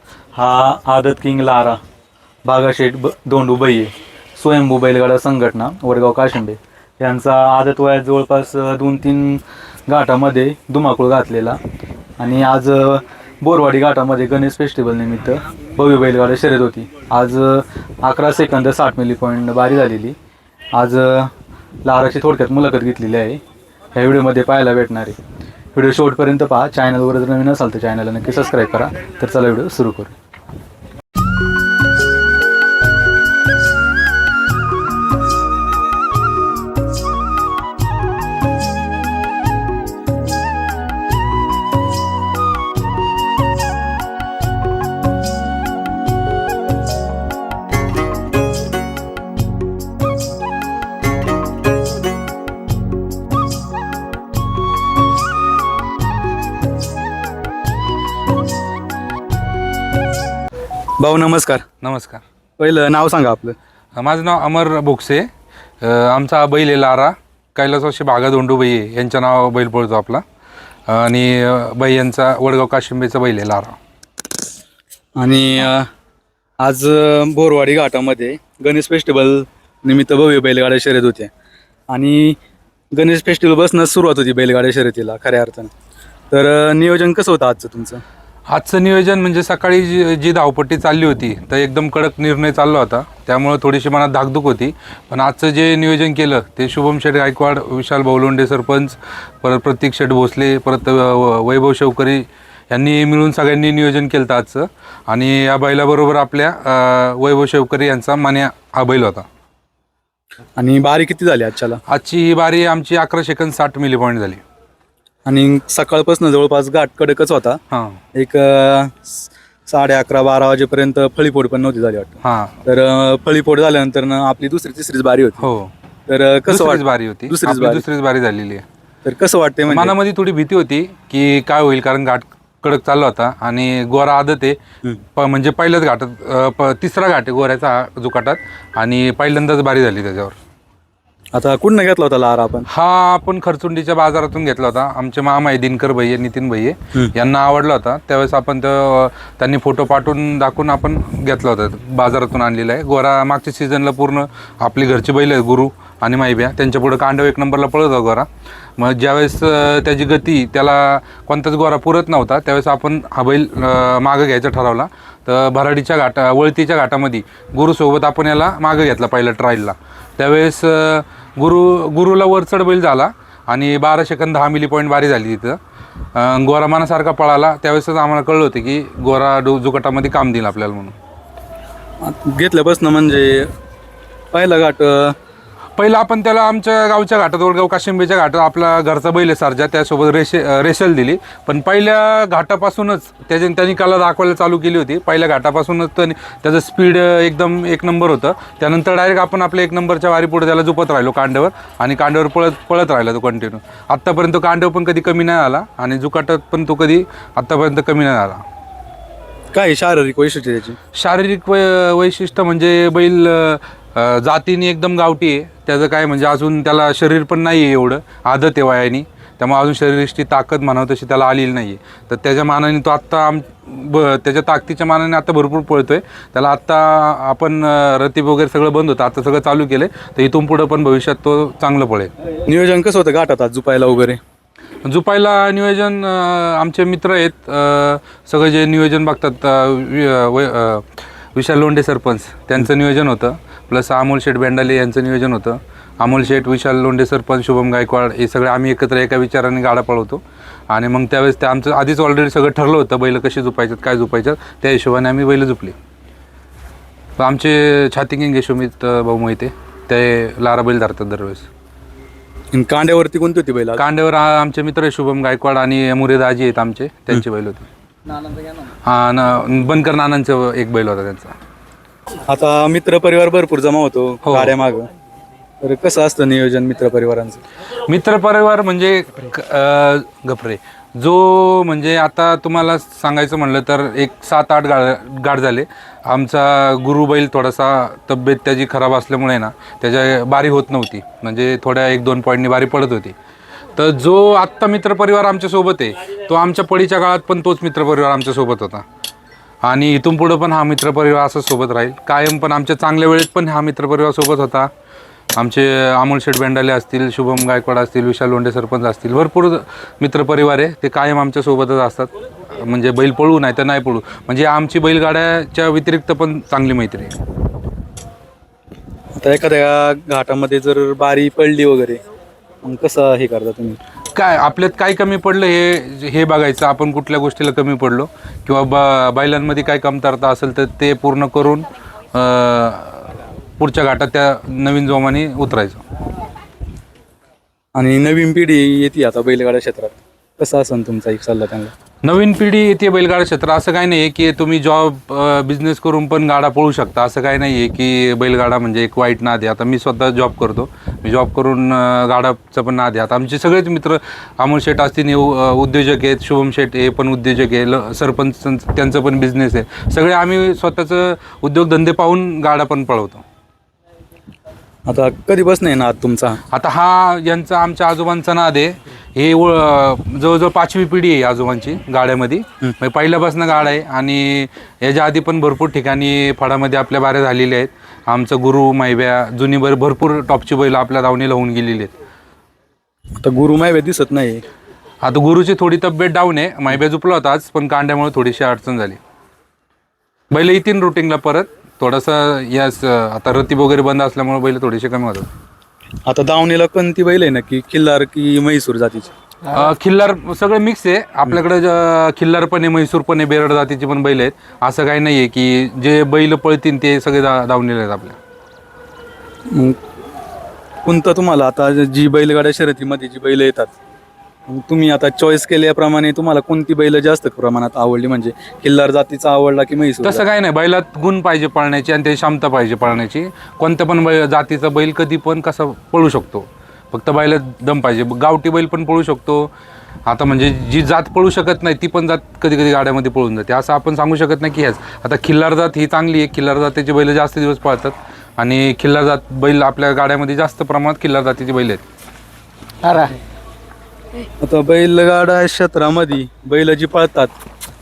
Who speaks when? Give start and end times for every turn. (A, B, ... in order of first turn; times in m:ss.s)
0:00.4-0:01.8 A
0:02.4-0:11.6 A
0:12.2-0:20.2 A
0:20.8-0:21.3 A
0:21.8-0:23.4 A
0:24.0-0:25.2 A
0:25.7-0:30.1 A
1:01.0-1:01.6 A
1:01.8-1:02.2 B
1:02.6-1:03.6 A
1:04.0-1:05.3 B
1:05.8-1:10.2 B
1:10.9-1:13.8 B
1:15.2-1:15.9 A
1:16.6-1:21.3 A
1:21.9-1:22.4 A
1:22.9-1:25.7 A
1:26.3-1:28.0 A
1:28.5-1:49.2 B
1:50.6-1:51.8 A
1:51.9-1:54.4 B
1:55.2-1:57.6 A
1:57.7-1:58.0 B
1:58.1-2:05.5 A
2:02.2-2:02.6 B
2:05.4-2:05.7 B
2:06.1-2:07.8 A
2:06.5-2:08.6 B
2:09.0-2:09.9 A
2:09.7-2:14.6 B
2:15.2-2:20.4 B
2:21.3-2:22.7 A
2:22.7-2:38.3 B
2:38.8-2:55.6 B
2:56.1-3:01.0 B
3:02.0-3:03.5 A
3:04.3-3:05.1 A
3:05.8-3:28.4 B
3:29.5-3:30.8 A
3:30.9-3:52.1 B
3:52.4-3:54.2 A
3:54.8-4:15.8 B
4:17.2-4:21.4 B
4:22.5-4:23.8 A
4:23.8-4:27.7 B
4:28.8-4:31.3 B
4:32.3-4:34.9 A
4:34.2-4:34.5 B
4:35.6-4:37.4 A
4:37.9-4:53.1 B
4:53.8-4:58.8 B
4:59.6-5:04.7 B
5:05.4-5:17.1 B
5:19.2-5:22.0 A
5:22.6-5:23.8 A
5:24.1-5:35.8 B
5:37.7-5:41.7 A
5:42.0-6:03.2 B
6:04.9-6:06.4 A
6:06.5-6:21.9 B
6:23.2-6:24.4 A
6:25.0-6:29.0 B
6:30.3-6:35.3 B
6:36.1-6:39.1 A
6:39.5-6:48.2 B
6:49.5-6:49.8 A
6:50.8-6:53.7 A
6:54.5-7:00.2 A
7:00.0-7:09.5 B
7:10.1-7:21.8 B
7:24.4-7:27.3 A